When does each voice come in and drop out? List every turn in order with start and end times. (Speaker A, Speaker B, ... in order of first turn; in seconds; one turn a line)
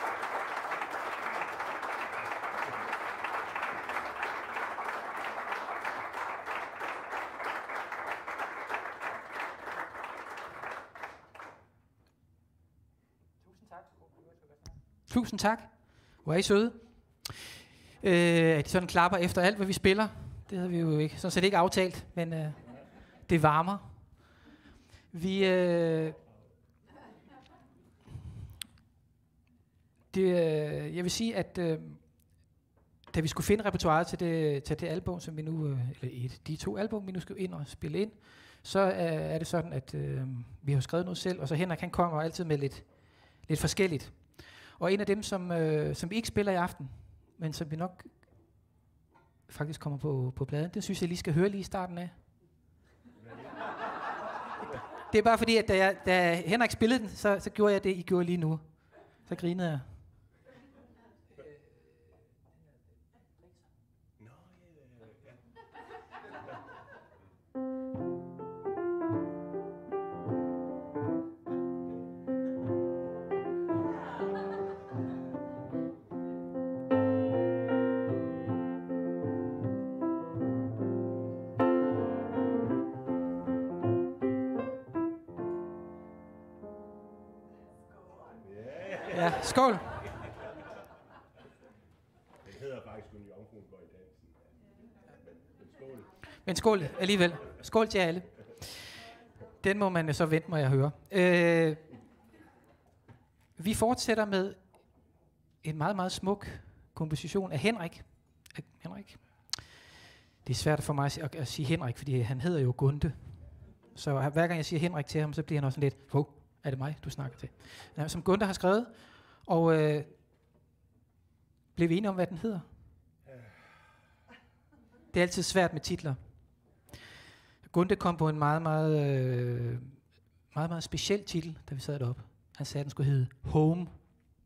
Speaker A: 15.1-24.4
Speaker A: 25.1-26.2
Speaker B: 25.4-26.5
Speaker A: 30.1-48.6
Speaker A: 49.5-52.1
Speaker A: 55.1-60.3
Speaker B: 64.2-65.4
Speaker B: 88.4-89.5
Speaker A: 89.1-90.1
Speaker B: 92.4-94.5
Speaker B: 95.5-96.2
Speaker A: 96.4-99.0
Speaker A: 99.6-101.9
Speaker A: 103.5-109.8
Speaker A: 110.4-120.1
Speaker A: 121.7-122.7
Speaker B: 123.2-123.8
Speaker A: 125.1-126.9
Speaker A: 127.6-134.2